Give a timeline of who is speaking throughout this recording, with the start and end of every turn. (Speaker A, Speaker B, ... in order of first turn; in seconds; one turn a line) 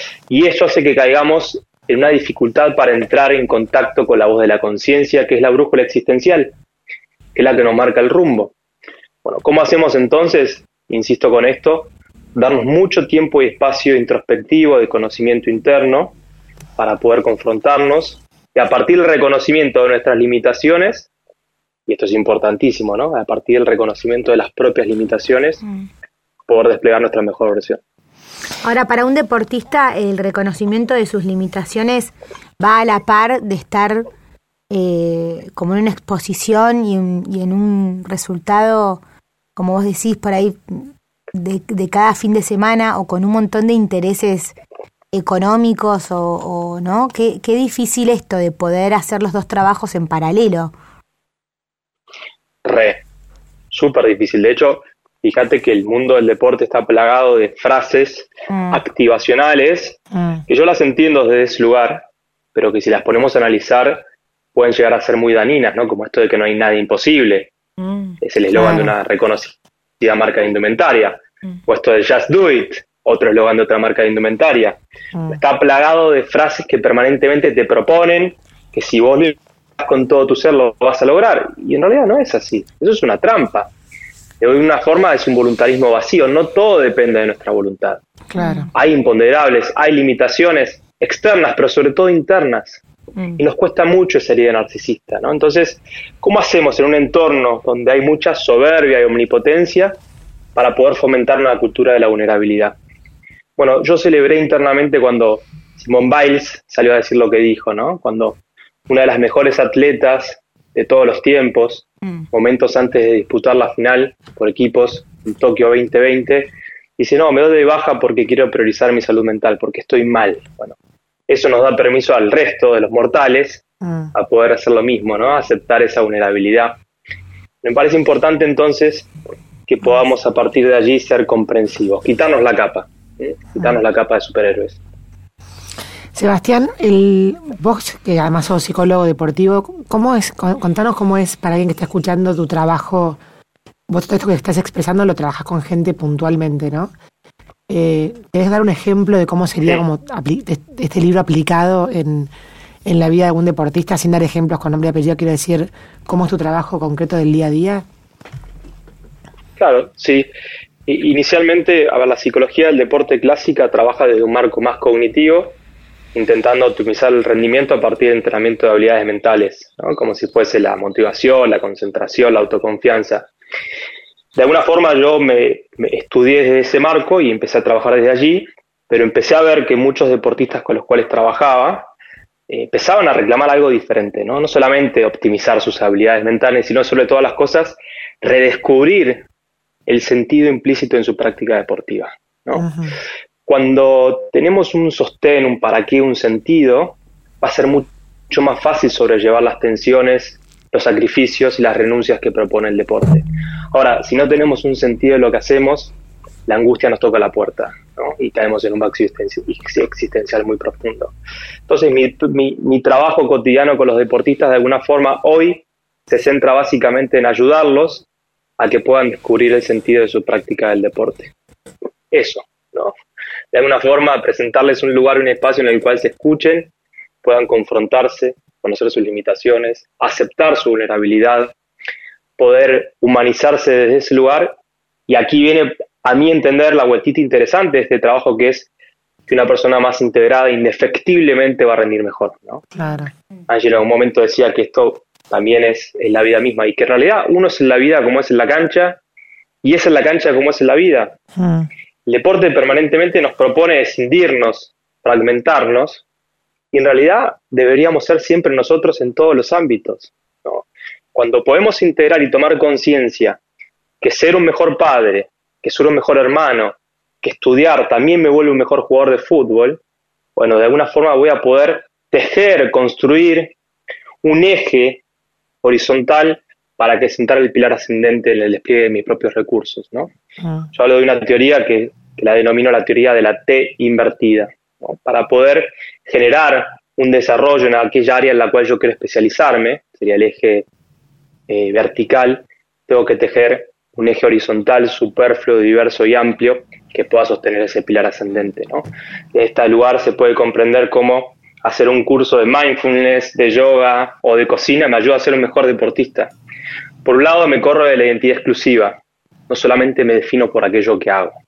Speaker A: 0.3-6.5
Speaker A: 7.3-8.5
Speaker A: 9.2-16.1
Speaker A: 16.8-21.1
Speaker A: 21.9-25.6
Speaker A: 26.5-27.8
Speaker B: 28.6-34.1
Speaker B: 34.7-39.0
Speaker B: 39.6-44.6
Speaker B: 45.1-50.7
Speaker A: 52.6-53.0
Speaker A: 53.7-67.5
Speaker B: 58.5-58.8
Speaker C: 60.1-60.4
Speaker B: 67.8-68.2
Speaker A: 68.2-74.8
Speaker C: 68.5-68.9
Speaker A: 75.3-83.7
Speaker A: 84.4-88.0
Speaker C: 88.3-88.7
Speaker B: 88.4-88.7
Speaker A: 88.8-92.8
Speaker A: 93.4-100.0
Speaker A: 100.5-102.8
Speaker A: 103.6-120.8
Speaker A: 121.3-126.8
Speaker C: 123.8-124.1
Speaker A: 127.6-129.1
Speaker A: 129.7-134.8
Speaker C: 136.1-143.2
Speaker C: 143.9-146.9
Speaker C: 147.7-152.3
Speaker C: 152.8-157.8
Speaker A: 159.6-160.3
Speaker A: 160.9-165.6
Speaker A: 166.1-173.3
Speaker A: 174.3-181.9
Speaker A: 182.5-189.2
Speaker A: 189.9-192.7
Speaker C: 192.6-192.9
Speaker A: 193.5-205.9
Speaker A: 206.5-211.1
Speaker A: 211.7-218.1
Speaker A: 218.6-221.3
Speaker A: 222.1-222.9
Speaker A: 223.5-226.7
Speaker A: 227.2-231.5
Speaker A: 232.4-234.6
Speaker A: 235.1-238.7
Speaker A: 239.3-242.6
Speaker C: 242.7-243.1
Speaker A: 243.5-249.0
Speaker A: 249.6-251.2
Speaker C: 251.3-251.7
Speaker A: 252.1-256.0
Speaker A: 256.7-263.4
Speaker A: 264.0-269.8
Speaker A: 270.4-273.5
Speaker A: 274.2-275.0
Speaker A: 275.6-280.1
Speaker C: 280.4-280.7
Speaker A: 280.7-290.7
Speaker A: 291.5-306.3
Speaker A: 307.0-311.4